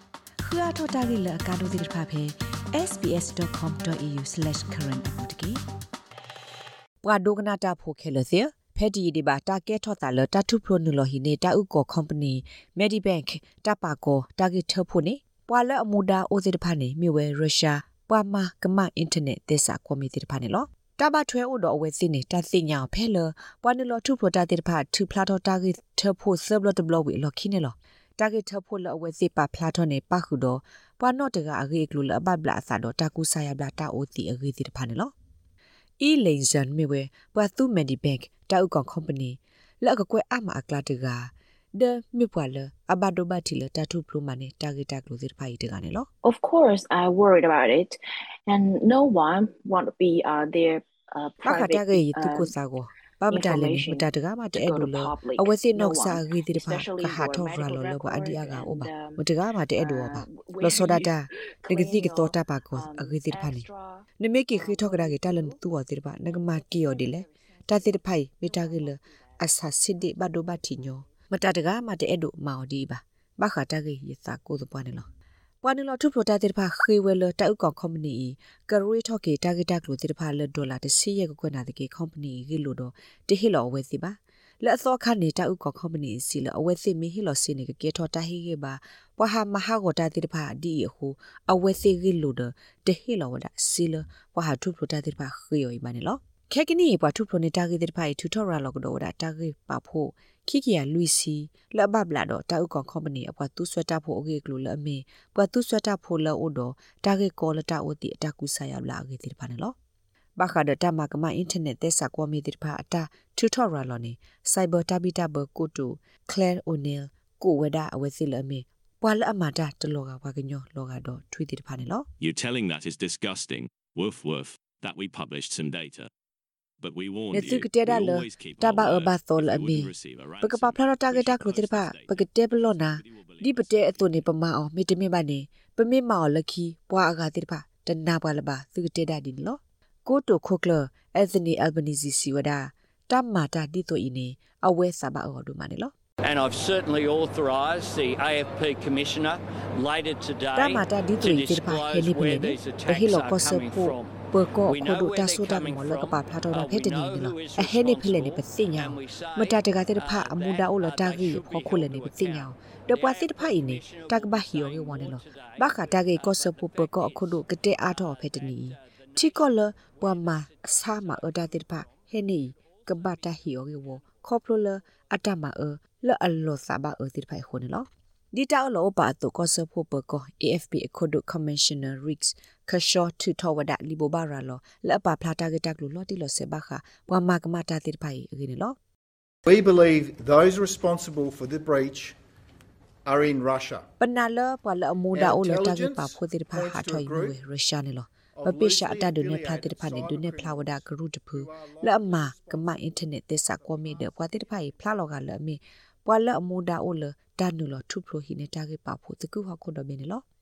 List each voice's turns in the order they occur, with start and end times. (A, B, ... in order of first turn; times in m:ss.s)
0:00.4-0:05.6 A
0:07.0-0:35.1 A
0:36.0-0:46.1 A
0:46.2-0:52.5 B
0:51.4-1:03.7 A
0:53.3-1:05.6 B
1:04.2-1:15.1 A
1:06.1-1:09.4 B
1:15.6-1:49.8 A
1:50.4-2:02.1 A
2:02.2-2:06.1 C
2:06.8-2:14.3 C
2:07.3-2:25.9 A
2:26.2-2:54.1 D
2:30.6-3:08.8 A
3:09.5-3:12.2 E
3:13.0-3:13.9 E
3:14.0-3:30.3 A
3:15.1-3:17.4 E
3:18.4-3:24.4 E